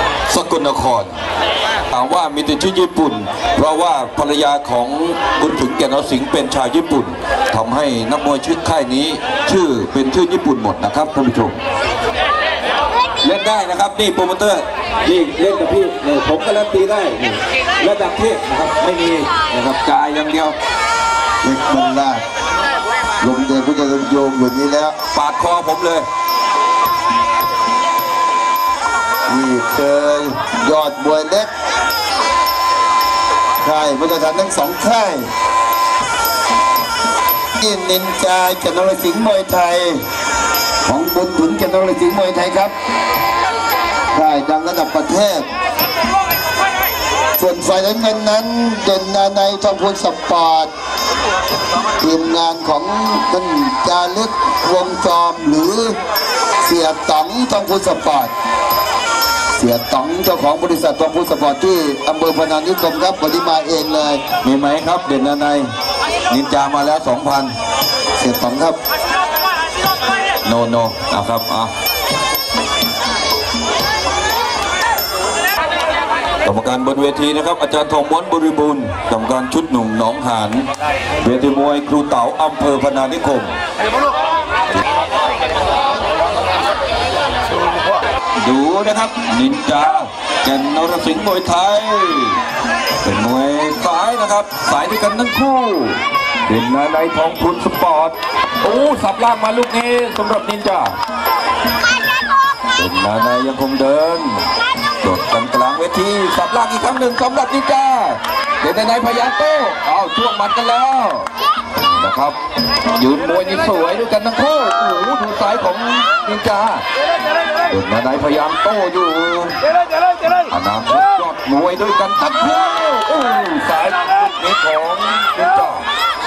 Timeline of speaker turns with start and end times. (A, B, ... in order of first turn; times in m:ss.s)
0:00.3-0:01.1 A
0:01.9-0:11.6 A
0:13.2-0:20.6 A
0:21.4-0:22.2 B
0:23.2-0:25.0 B
0:25.1-0:26.1 A
0:29.3-0:31.5 B
0:33.6-0:35.3 B
0:37.6-0:40.0 B
0:40.9-0:42.7 B
0:44.1-0:45.5 B
0:47.4-0:50.7 B
0:52.0-0:56.0 B
0:56.6-0:58.3 B
0:59.6-1:04.2 B
1:04.4-1:05.7 A
1:06.3-1:07.5 A
1:08.2-1:08.8 B
1:10.4-1:11.7 A
1:16.4-1:20.7 A
1:21.2-1:23.5 A
1:28.4-1:32.4 A
1:33.0-1:41.0 A
1:42.7-1:44.5 A
1:45.0-1:52.4 A
1:52.9-1:56.8 A
1:57.6-1:59.6 A
2:00.5-2:05.9 A